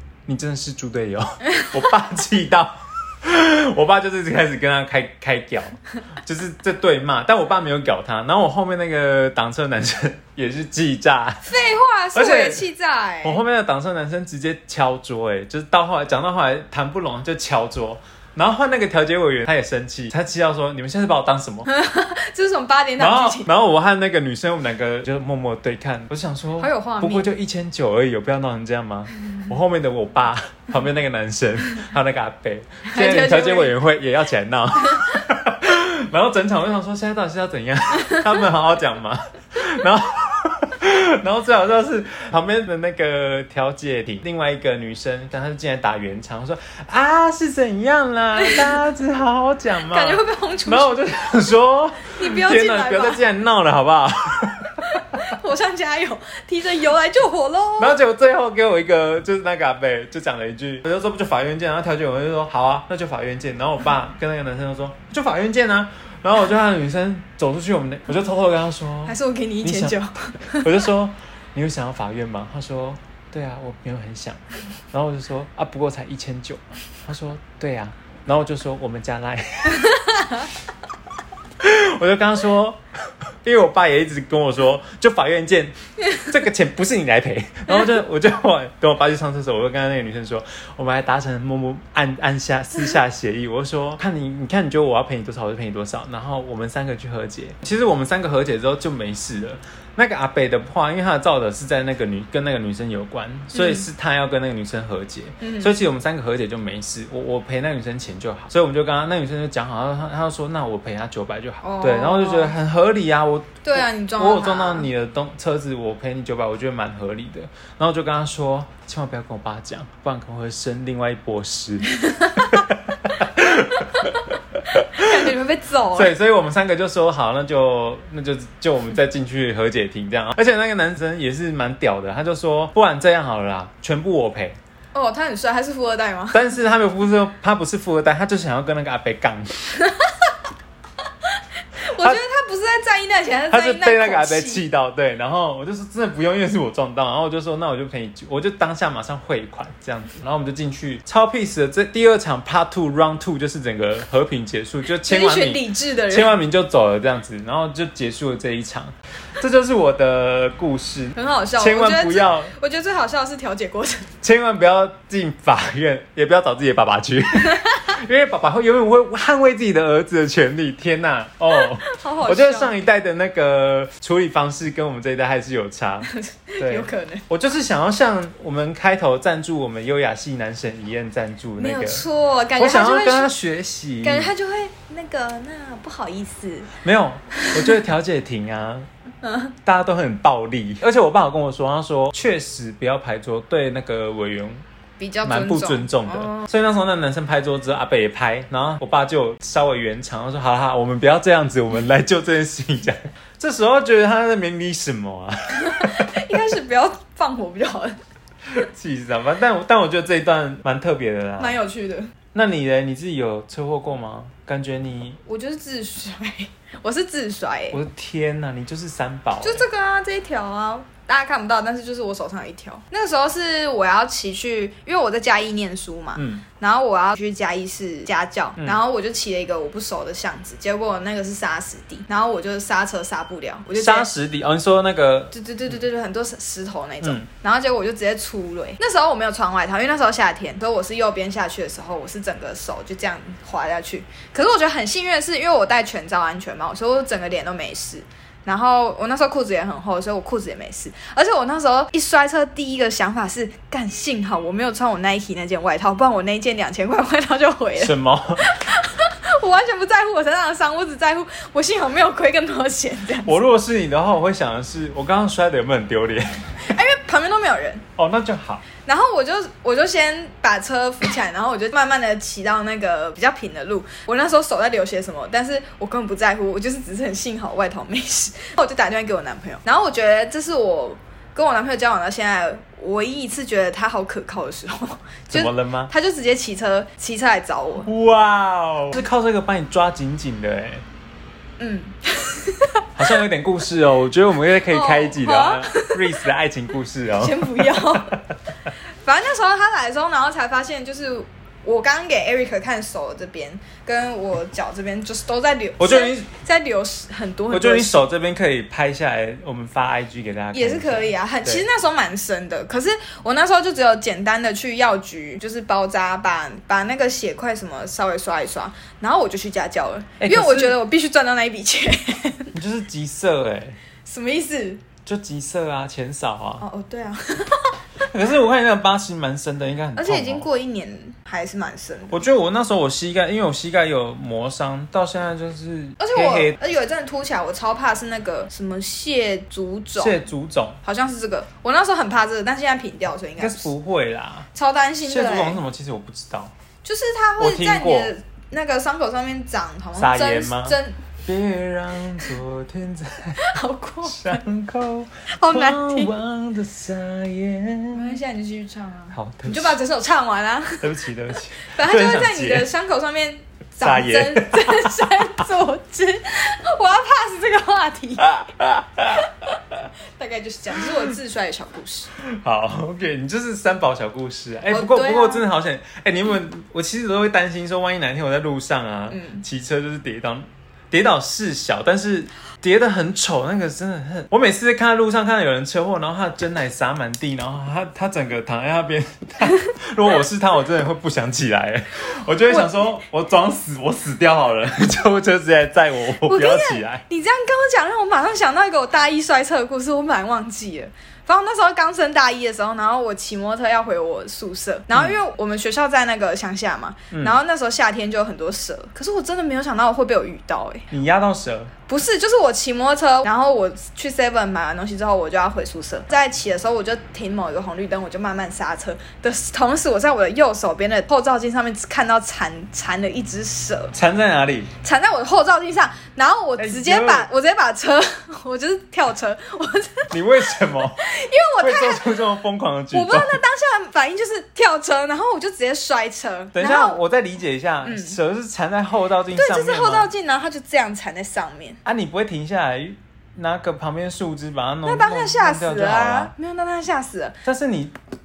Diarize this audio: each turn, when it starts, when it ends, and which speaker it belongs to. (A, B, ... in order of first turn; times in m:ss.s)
0:00.3-0:11.5 A
0:01.5-0:01.8 B
0:11.4-0:13.4 B
0:12.1-0:12.6 A
0:13.2-0:21.7 A
0:21.7-0:23.5 B
0:23.0-0:55.2 A
0:26.6-0:27.3 B
0:32.9-0:33.8 B
0:48.4-0:48.8 B
0:49.8-0:51.0 B
0:52.2-0:53.2 B
0:54.8-0:58.0 B
0:57.8-1:10.0 A
1:09.1-1:10.8 B
1:10.6-1:19.9 A
1:19.8-1:20.5 B
1:21.6-1:22.8 A
1:23.4-2:05.2 A
1:43.5-1:43.9 B
1:45.4-1:45.8 B
1:51.6-1:52.5 B
1:53.6-1:54.9 B
2:02.0-2:02.5 B
2:04.9-2:06.1 B
2:05.9-2:14.6 A
2:14.9-2:16.5 B
2:16.3-2:19.8 A
2:19.7-2:20.3 B
2:21.2-2:24.6 B
2:23.5-2:42.5 A
2:35.0-2:36.3 B
2:41.2-2:44.1 B
2:44.2-3:02.0 A
2:47.4-2:47.8 B
2:51.5-2:52.7 B
2:56.0-2:57.2 B
3:01.6-3:03.3 B
3:02.6-3:04.3 A
3:04.0-3:06.7 B
3:06.8-3:08.9 A
3:07.4-3:07.8 B
3:09.2-3:09.5 B
3:09.6-3:14.6 A
3:15.0-3:16.5 B
3:15.2-3:26.1 A
3:25.6-3:28.0 B
3:28.5-3:31.6 A
3:31.4-3:32.1 B
3:32.3-3:35.2 A
3:35.2-3:37.8 B
3:37.7-3:39.7 A
3:39.4-3:54.1 B
3:46.2-3:46.4 A
3:53.8-3:55.7 A
3:55.3-4:23.4 B
3:57.0-3:57.3 A
4:17.8-4:18.5 A
4:23.2-4:26.7 A
4:26.6-4:27.8 B
4:28.0-4:28.6 A
4:28.8-4:47.9 B
4:45.3-4:45.9 A
4:47.8-4:50.8 A
4:51.6-4:52.8 B
4:53.0-4:58.7 A
4:54.6-4:56.2 B
4:57.2-4:58.2 B
4:59.0-5:08.1 B
5:05.8-5:06.3 A
5:07.5-5:11.6 A
5:10.5-5:22.5 B
5:20.2-5:20.8 A
5:22.5-5:23.8 A
5:24.0-5:24.8 B
5:25.0-5:26.6 A
5:26.6-5:27.8 B
5:28.0-5:30.5 A
5:30.0-5:32.2 B
5:32.1-5:36.6 A
5:36.0-5:40.2 B
5:40.0-5:40.8 A
5:40.8-5:43.7 B
5:43.4-5:44.5 A
5:44.5-5:45.6 B
5:45.0-5:46.5 A
5:46.8-5:51.0 B
5:47.4-5:48.1 A
5:50.0-5:53.5 A
5:53.4-5:54.4 B
5:54.0-5:58.2 A
5:55.3-5:56.1 B
5:57.9-6:00.9 B
5:59.1-5:59.8 A
6:00.8-6:02.7 A
6:01.6-6:08.4 B
6:03.8-6:05.2 A
6:08.2-6:09.9 A
6:09.1-6:12.1 B
6:12.2-6:37.0 A
6:14.7-6:15.5 B
6:19.1-6:19.4 B
6:32.5-6:32.8 B
6:36.2-6:50.9 B
6:47.1-6:47.4 A
6:50.9-6:51.7 A
6:51.9-7:03.9 B
7:03.9-7:04.7 A
7:04.8-7:12.2 B
7:06.6-7:07.3 A
7:10.1-7:11.1 A
7:11.6-7:13.4 A
7:12.9-7:17.0 B
7:16.5-7:20.1 A
7:17.8-7:18.2 B
7:19.3-7:21.8 B
7:21.8-7:26.3 A
7:24.8-7:27.4 B
7:27.4-7:28.0 A